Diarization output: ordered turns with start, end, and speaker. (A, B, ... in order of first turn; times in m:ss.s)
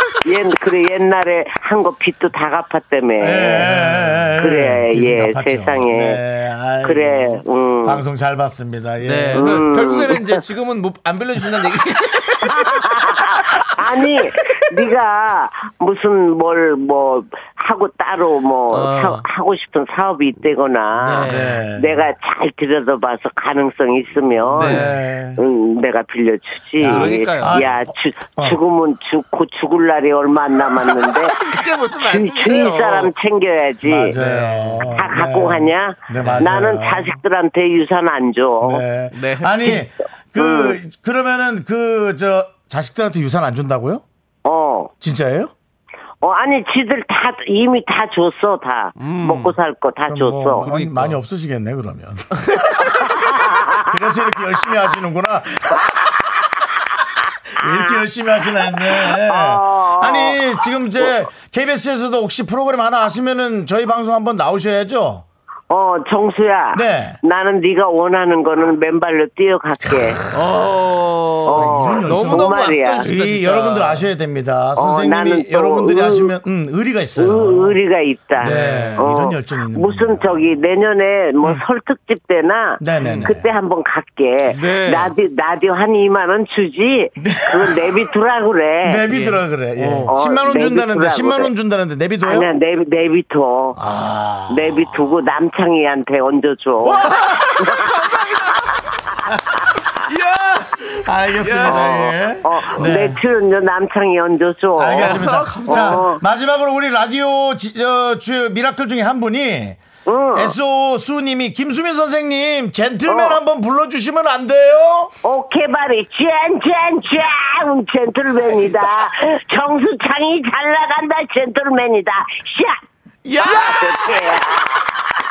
0:00.2-0:03.8 A
0:03.2-0:09.7 B
0:03.7-0:04.2 C
0:04.4-0:06.2 A
0:06.8-0:08.0 A
0:09.0-0:13.0 C
0:09.4-0:10.4 A
0:12.4-0:31.4 A
0:18.7-0:19.2 C
0:21.0-0:21.6 C
0:21.2-0:22.1 B
0:24.5-0:25.4 B
0:24.6-0:25.0 C
0:26.8-0:28.6 B
0:26.8-0:27.7 C
0:31.4-0:33.1 C
0:32.0-0:34.2 A
0:33.8-0:37.2 B
0:34.2-0:35.0 C
0:34.9-0:38.8 A
0:36.2-0:36.6 C
0:38.6-0:44.0 B
0:39.1-0:39.7 C
0:40.4-0:40.8 A
0:44.4-0:44.9 A
0:45.0-0:45.5 B
0:46.2-0:50.7 A
0:49.0-0:49.6 C
0:50.1-0:56.5 B
0:50.6-0:51.2 C
0:53.0-0:53.8 A
0:57.6-1:05.2 B
0:57.6-0:58.0 A
0:59.0-1:01.1 A
1:05.7-1:10.2 A
1:06.7-1:07.2 B
1:10.3-1:14.1 C
1:11.5-1:13.1 A
1:11.5-1:17.8 B
1:14.8-1:16.3 A
1:17.2-1:29.0 A
1:18.4-1:20.5 B
1:18.4-1:19.1 C
1:22.8-1:23.5 B
1:23.0-1:23.3 C
1:24.5-1:25.1 C
1:27.2-1:28.1 B
1:28.8-1:32.5 B
1:29.1-1:30.1 C
1:30.1-1:31.5 A
1:32.2-1:33.8 A
1:33.8-1:35.2 B
1:34.5-1:38.0 A
1:36.8-1:38.0 B
1:37.0-1:38.7 C
1:40.1-1:43.2 B
1:41.4-1:42.1 C
1:41.6-1:46.2 A
1:44.8-1:49.8 B
1:45.0-1:46.1 C
1:50.1-1:50.6 A
1:50.3-1:55.1 B
1:53.1-1:53.4 A
1:55.2-2:02.8 A
2:03.3-2:04.8 B
2:03.4-2:04.9 A